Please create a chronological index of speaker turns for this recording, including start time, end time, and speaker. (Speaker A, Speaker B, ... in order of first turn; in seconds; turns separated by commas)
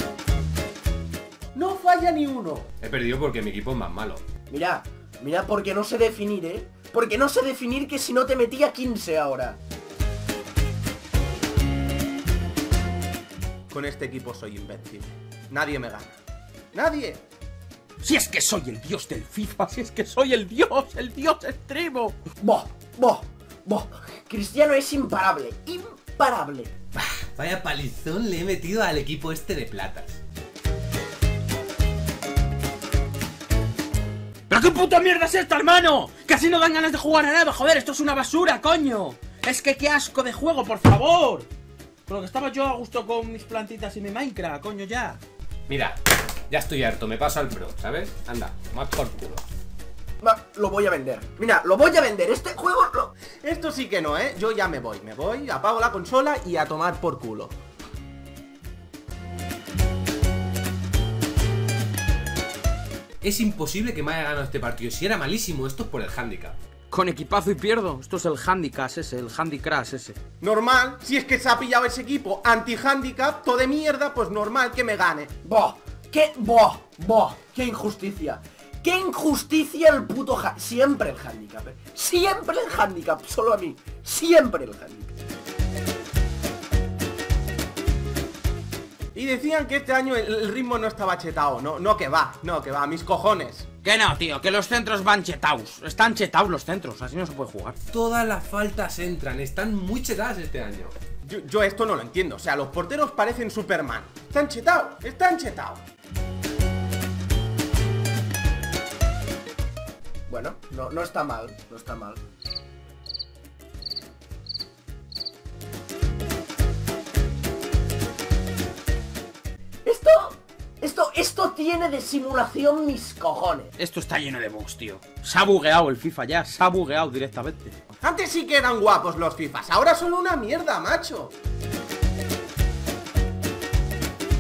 Speaker A: 1.6-2.7, Speaker B: 2.8-4.2, Speaker C: 4.5-9.6, Speaker A: 13.7-16.2, Speaker A: 16.7-17.2, Speaker D: 18.0-22.2, Speaker C: 22.4-26.7, Speaker B: 27.0-30.2, Speaker D: 34.5-41.5, Speaker D: 42.1-45.2, Speaker B: 45.7-46.0, Speaker B: 46.5-49.4, Speaker C: 50.2-53.1, Speaker A: 53.4-57.5, Speaker B: 63.2-66.6, Speaker D: 66.9-70.2, Speaker A: 70.4-75.3, Speaker C: 75.5-85.1, Speaker A: 89.2-93.7, Speaker D: 93.8-97.8, Speaker B: 97.9-100.9, Speaker A: 101.2-105.8, Speaker C: 110.3-112.2, Speaker C: 119.8-123.7, Speaker D: 123.8-127.8, Speaker A: 128.0-131.3